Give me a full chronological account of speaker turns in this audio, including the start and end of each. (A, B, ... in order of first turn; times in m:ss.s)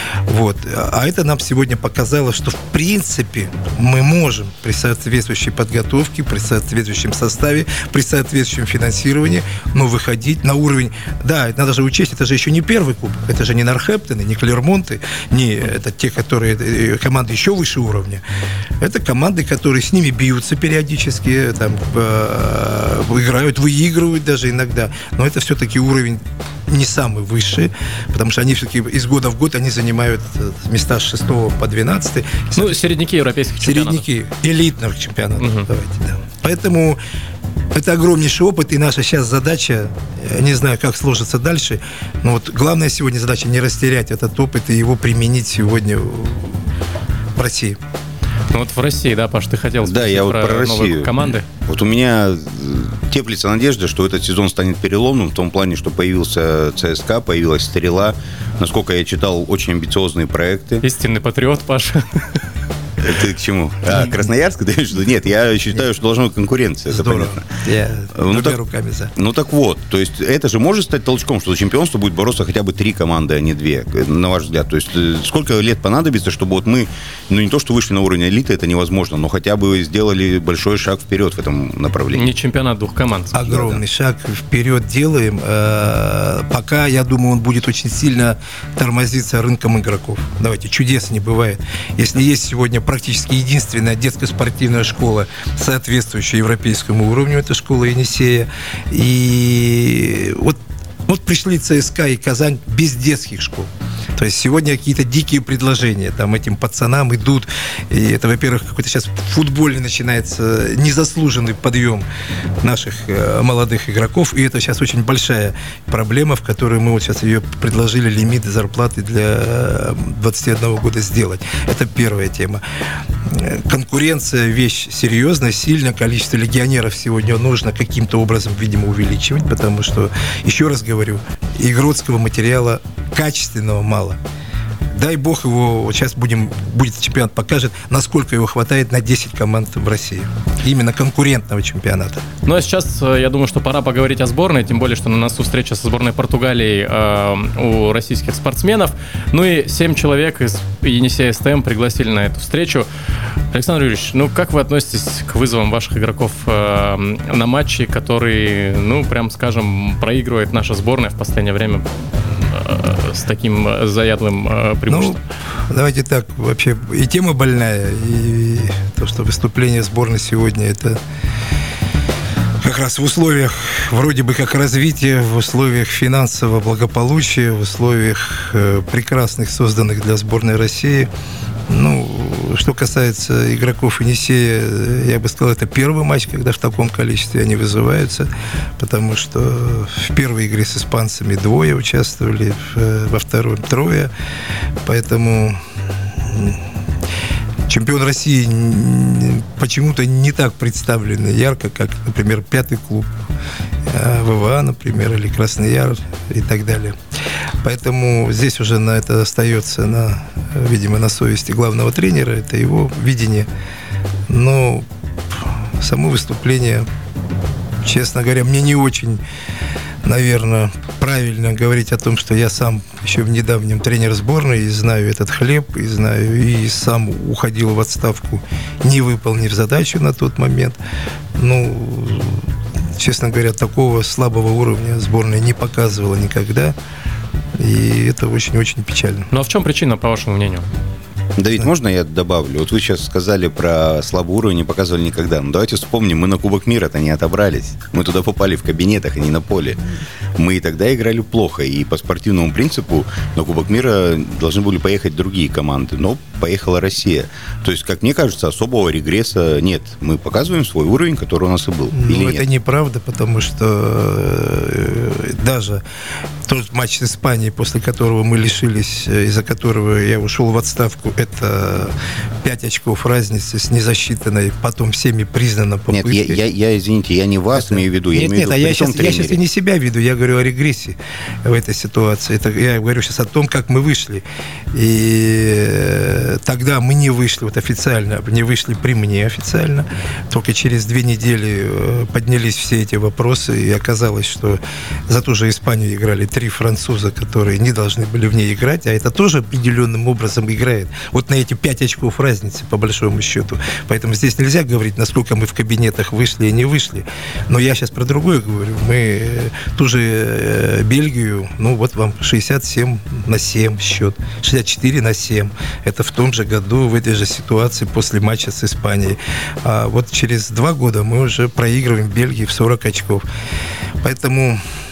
0:00.3-0:18.2 A
0:18.8-0:32.8 A
0:32.6-0:34.1 B
0:33.6-0:37.0 A
0:35.4-0:35.7 B
0:37.7-0:46.6 A
0:47.4-0:47.8 A
0:48.5-0:51.5 B
0:49.8-1:00.8 C
1:00.8-1:02.1 B
1:03.0-1:07.5 C
1:06.9-1:09.1 A
1:08.2-1:08.6 C
1:09.2-1:22.3 C
1:22.1-1:23.4 B
1:23.3-1:52.0 A
1:23.4-1:23.8 C
1:52.6-2:02.6 A
2:03.3-2:14.2 A
2:14.9-2:22.2 A
2:22.4-2:32.9 B
2:33.5-2:45.2 B
2:44.9-2:45.2 A
2:45.7-2:51.0 A
2:52.6-3:01.1 A
3:01.7-3:14.1 A
3:14.8-3:15.6 A
3:16.2-3:16.6 A
3:17.7-3:23.1 A
3:23.9-3:27.0 A
3:27.6-3:33.5 A
3:34.3-3:34.9 A
3:35.8-3:36.9 A
3:37.8-3:39.2 A
3:40.0-3:50.8 A
3:51.4-3:52.5 A
3:53.0-3:56.8 A
3:57.6-3:59.3 A
3:59.3-4:00.7 B
4:01.4-4:09.8 C
4:10.4-4:22.4 C
4:21.9-4:25.8 A
4:26.5-4:36.4 A
4:35.9-4:39.4 C
4:37.7-5:23.2 A
5:24.0-5:24.6 A